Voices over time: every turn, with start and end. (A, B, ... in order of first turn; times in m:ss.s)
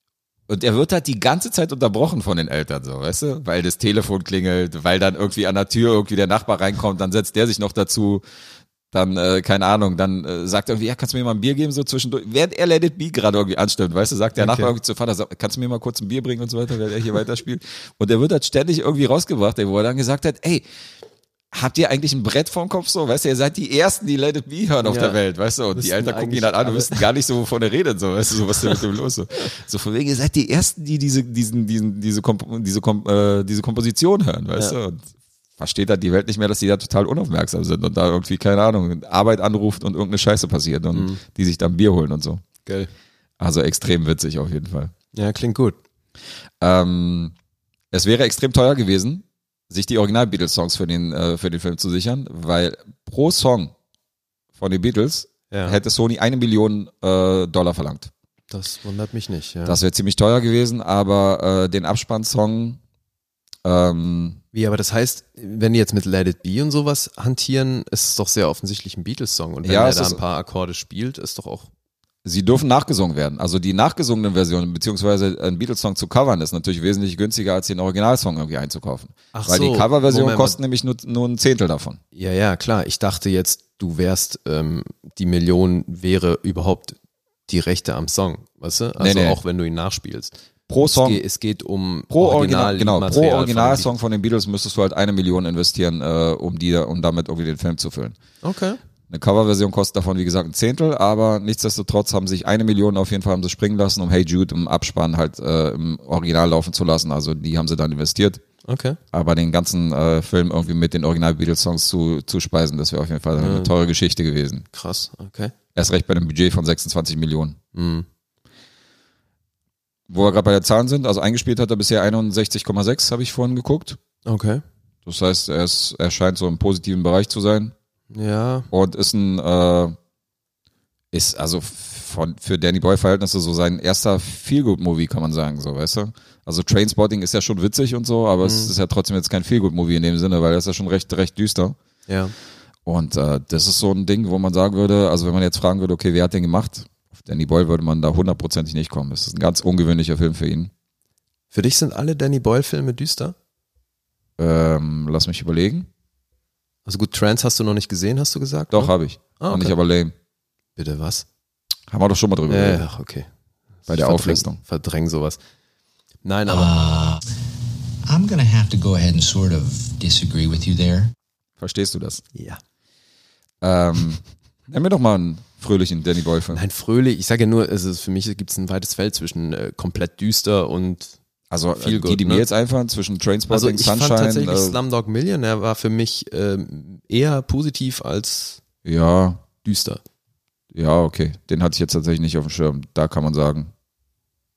0:00.5-0:08.2 A
0:08.9-0:20.6 A
0:14.4-0:14.7 B
0:21.5-0:35.1 A
0:24.8-0:25.2 B
0:25.7-0:27.1 B
0:35.6-0:42.4 A
0:40.9-0:41.2 B
0:42.7-0:42.9 B
0:43.4-0:44.9 A
0:45.1-0:45.8 B
0:46.6-0:47.3 A
0:47.9-0:53.7 A
0:54.6-0:58.1 A
0:55.5-0:55.8 B
0:58.5-0:59.8 B
0:59.7-1:02.8 A
1:03.6-1:04.4 A
1:04.5-1:11.7 B
1:09.6-1:10.2 A
1:12.2-1:22.0 A
1:19.3-1:20.6 B
1:22.2-1:27.0 B
1:27.5-1:33.9 B
1:29.0-1:29.4 A
1:30.7-1:31.2 A
1:32.1-1:38.2 A
1:38.4-1:38.8 B
1:39.1-1:48.4 A
1:48.6-1:49.0 B
1:49.1-1:54.7 A
1:53.4-1:53.7 B
1:54.7-1:55.5 B
1:55.8-1:57.6 A
1:57.8-1:58.1 B
2:00.1-2:04.0 A
2:04.3-2:04.6 B
2:05.1-2:07.7 A
2:08.1-2:08.7 B
2:08.7-2:10.0 A
2:11.1-2:21.8 A
2:18.4-2:18.7 B
2:22.1-2:22.3 B
2:22.9-2:30.7 A
2:31.5-2:33.4 B
2:34.4-2:35.9 A
2:36.9-2:39.8 B
2:38.7-2:40.1 A
2:40.8-2:41.3 B
2:41.9-2:42.9 A
2:42.5-2:43.3 B
2:43.9-2:45.4 B
2:43.9-2:44.6 A
2:46.2-2:46.7 B
2:46.5-2:47.2 C
2:48.1-2:51.1 C
2:51.6-2:52.2 A
2:52.3-2:52.6 B
2:53.6-2:56.6 A
2:56.5-3:01.2 B
3:01.5-3:04.8 A
3:01.8-3:02.5 B
3:03.5-3:08.6 B
3:08.8-3:09.4 A
3:09.6-3:10.0 B
3:10.7-3:13.7 A